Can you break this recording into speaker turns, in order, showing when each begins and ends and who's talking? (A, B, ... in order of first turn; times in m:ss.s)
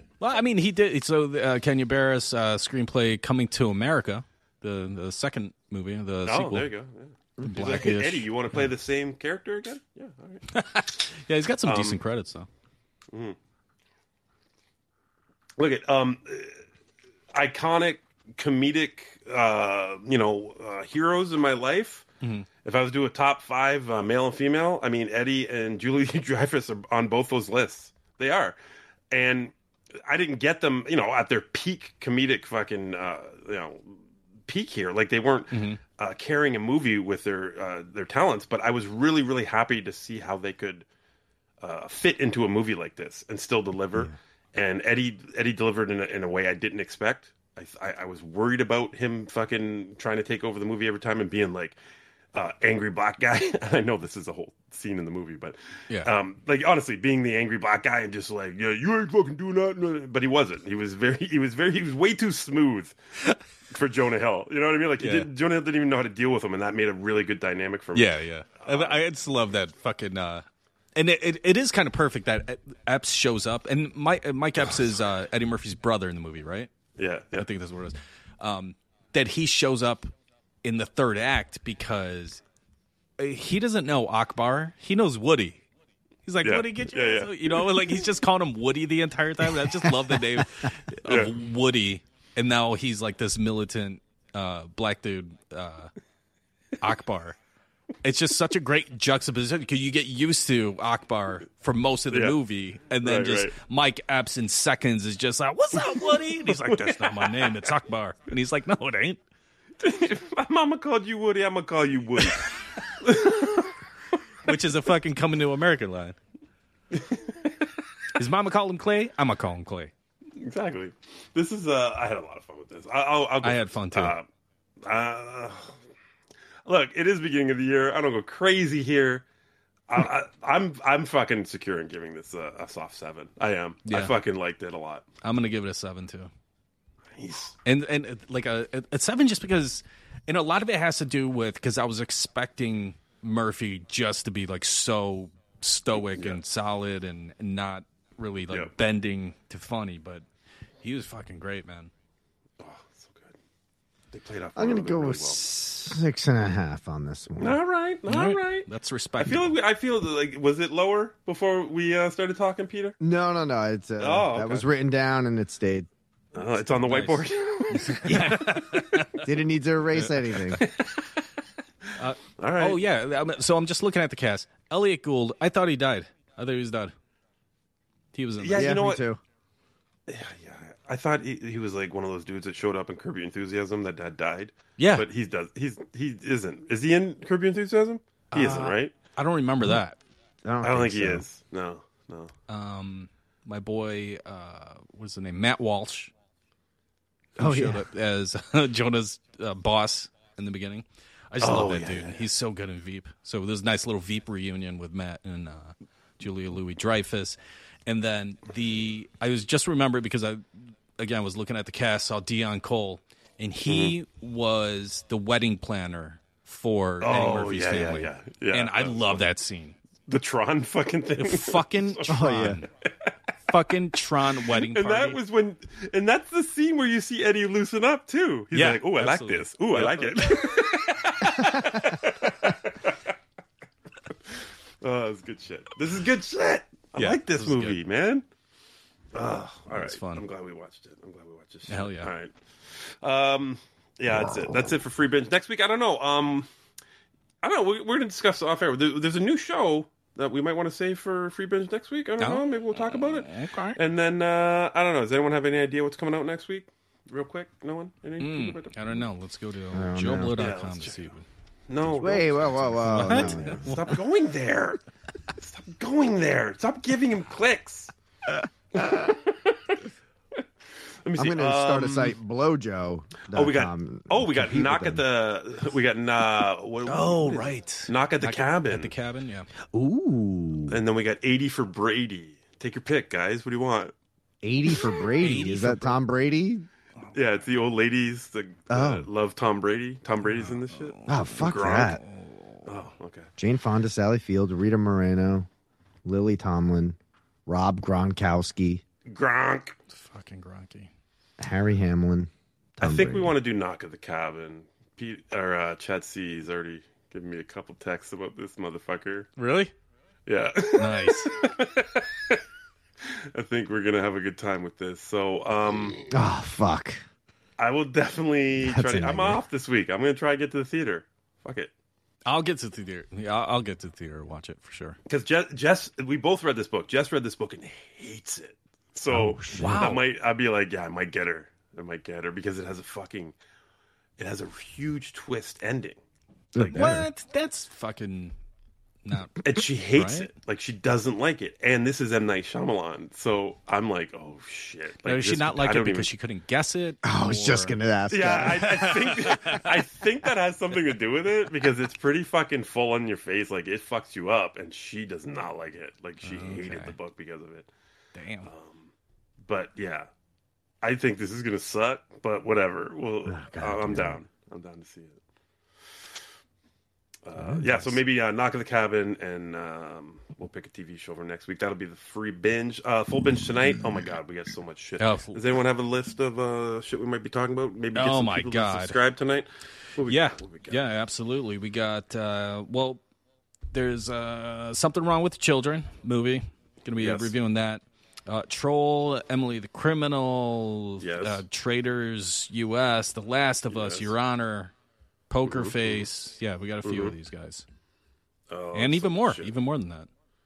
0:00.2-0:06.7 A
0:06.3-0:10.4 B
0:07.4-0:08.3 A
0:10.5-0:12.5 A
0:11.6-0:12.0 B
0:15.6-0:16.6 B
0:17.3-0:22.1 B
0:22.6-0:28.6 B
0:29.1-0:40.9 B
0:35.5-0:35.8 A
0:41.6-0:51.8 B
0:52.3-1:03.0 B
1:03.7-1:09.0 B
1:05.0-1:05.3 A
1:07.9-1:16.7 A
1:17.0-1:17.5 B
1:17.4-1:20.1 A
1:20.6-1:22.4 A
1:23.2-1:25.6 A
1:26.3-1:35.9 A
1:26.4-1:27.9 B
1:31.0-1:31.3 B
1:36.8-1:37.4 A
1:38.0-1:49.2 A
1:42.1-1:42.4 B
1:43.0-1:43.6 B
1:46.0-1:47.7 B
1:49.8-1:53.7 B
1:54.5-1:56.2 A
1:56.9-1:57.6 B
1:58.2-1:59.9 A
2:00.4-2:04.2 B
2:03.4-2:04.2 A
2:04.8-2:05.8 B
2:06.7-2:09.2 B
2:09.9-2:15.1 B
2:13.9-2:14.1 A
2:15.2-2:16.3 A
2:17.2-2:17.6 B
2:17.6-2:30.2 A
2:26.0-2:26.4 B
2:30.8-2:31.9 A
2:32.6-2:33.4 B
2:34.1-2:35.4 B
2:34.6-2:37.6 C
2:37.4-2:38.7 B
2:38.1-2:39.6 A
2:39.2-2:43.0 B
2:43.0-2:45.9 C
2:44.0-2:44.6 B
2:46.3-2:49.0 B
2:46.6-2:49.3 A
2:49.0-2:50.6 C
2:50.0-2:50.6 A
2:50.6-2:51.0 B
2:52.0-2:57.0 A
2:52.4-2:52.8 B
2:58.1-2:58.9 A
2:58.4-2:59.0 B
2:58.5-2:59.2 C
3:00.1-3:08.9 B
3:04.8-3:05.1 A
3:08.3-3:10.0 A
3:10.4-3:11.3 C
3:10.6-3:12.3 B
3:12.5-3:16.1 A
3:17.4-3:39.8 A
3:17.4-3:17.8 C
3:21.4-3:22.2 B
3:33.7-3:33.9 B
3:37.0-3:39.3 B
3:40.1-3:42.2 B
3:41.2-3:42.7 A
3:42.1-3:42.6 C
3:43.5-3:45.2 A
3:44.5-3:53.0 B
3:48.5-3:50.7 A
3:54.3-3:58.3 B
3:57.0-3:57.8 A
3:59.1-4:06.5 B
3:59.7-4:00.3 A
4:01.7-4:02.1 A
4:04.1-4:04.6 C
4:07.4-4:19.1 B
4:12.2-4:13.8 A
4:18.2-4:21.2 A
4:19.7-4:20.4 C
4:20.3-4:21.2 B
4:21.7-4:24.8 B
4:21.9-4:23.7 C
4:22.8-4:23.8 A
4:25.4-4:27.9 B
4:28.8-4:29.8 B
4:31.0-4:32.2 B
4:31.2-4:35.0 C
4:33.3-4:38.9 B
4:36.9-4:39.5 A
4:39.7-4:40.8 C
4:40.7-4:43.9 B
4:44.4-4:46.7 C
4:45.2-4:46.0 A
4:47.1-4:52.0 B
4:48.7-4:49.1 C
4:50.3-4:52.7 A
4:51.1-4:52.0 C
4:52.7-4:53.3 B
4:53.4-4:55.5 C
4:56.0-4:58.8 C
4:59.1-4:59.8 B
4:59.9-5:00.9 A
5:01.4-5:03.3 C
5:02.8-5:09.3 B
5:09.4-5:09.7 A
5:10.3-5:12.4 B
5:10.8-5:11.4 A
5:13.1-5:16.0 B
5:16.1-5:17.0 C
5:17.6-5:21.7 B
5:18.6-5:19.4 C
5:22.3-5:25.0 A
5:25.1-5:33.4 B
5:29.1-5:30.0 C
5:29.6-5:30.0 A
5:34.2-5:36.0 B
5:36.6-5:37.1 C
5:36.6-5:36.9 B
5:36.7-5:38.4 A
5:39.0-5:40.3 A
5:39.4-5:46.1 B
5:45.0-5:47.8 A
5:47.0-5:48.8 C
5:48.1-5:57.7 B
5:48.5-5:49.7 A
5:56.2-5:57.0 A
5:58.2-5:58.5 A
5:58.4-5:58.9 B
5:59.4-6:00.1 B
6:00.8-6:05.2 B
6:03.3-6:04.2 C
6:07.2-6:20.8 B
6:07.5-6:08.0 A
6:15.0-6:15.4 A
6:18.0-6:19.0 A
6:20.0-6:23.0 A
6:23.7-6:34.7 A
6:27.0-6:27.3 B
6:31.0-6:31.4 B
6:33.7-6:34.1 B
6:35.3-6:37.7 A
6:35.4-6:36.0 B
6:36.8-6:37.1 B
6:38.5-6:39.5 B
6:38.7-6:40.1 A